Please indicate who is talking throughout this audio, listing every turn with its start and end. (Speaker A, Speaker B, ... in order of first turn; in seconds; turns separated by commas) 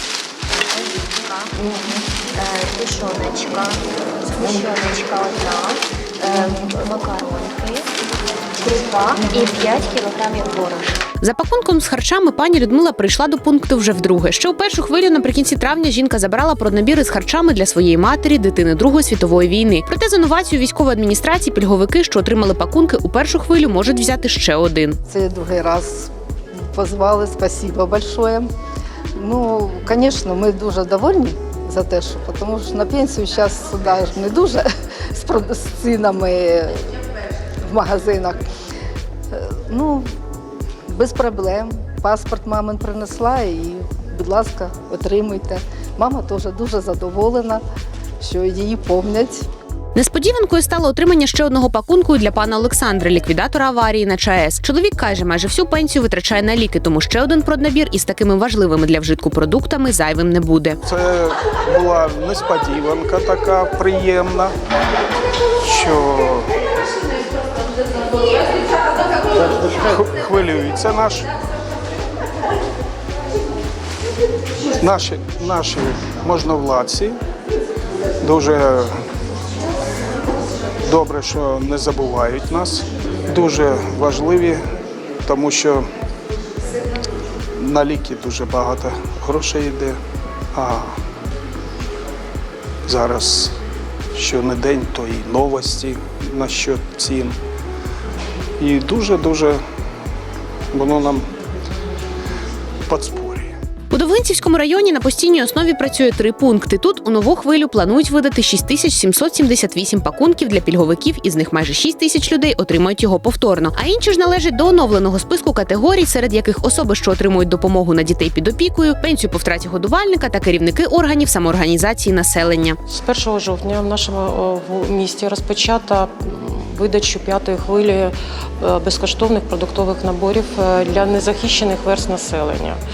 Speaker A: 0.6-1.8, Speaker A: 2.3-7.9, Speaker A: 8.6-11.0, Speaker B: 11.2-25.0, Speaker C: 25.1-26.1, Speaker C: 26.7-28.5, Speaker C: 29.1-36.9, Speaker C: 37.7-38.4, Speaker C: 39.3-40.1, Speaker C: 40.9-47.6, Speaker C: 48.2-49.5, Speaker B: 49.9-60.8, Speaker D: 60.9-64.5, Speaker D: 65.6-66.5, Speaker D: 69.6-71.3, Speaker D: 74.8-77.2, Speaker D: 78.2-79.0, Speaker D: 80.8-84.6, Speaker D: 85.2-85.8, Speaker D: 87.6-90.0, Speaker D: 90.5-90.9, Speaker D: 92.8-93.5, Speaker D: 94.1-97.3, Speaker D: 98.6-99.6, Speaker D: 100.7-101.3, Speaker D: 102.9-103.5, Speaker B: 103.9-122.8, Speaker E: 122.9-132.8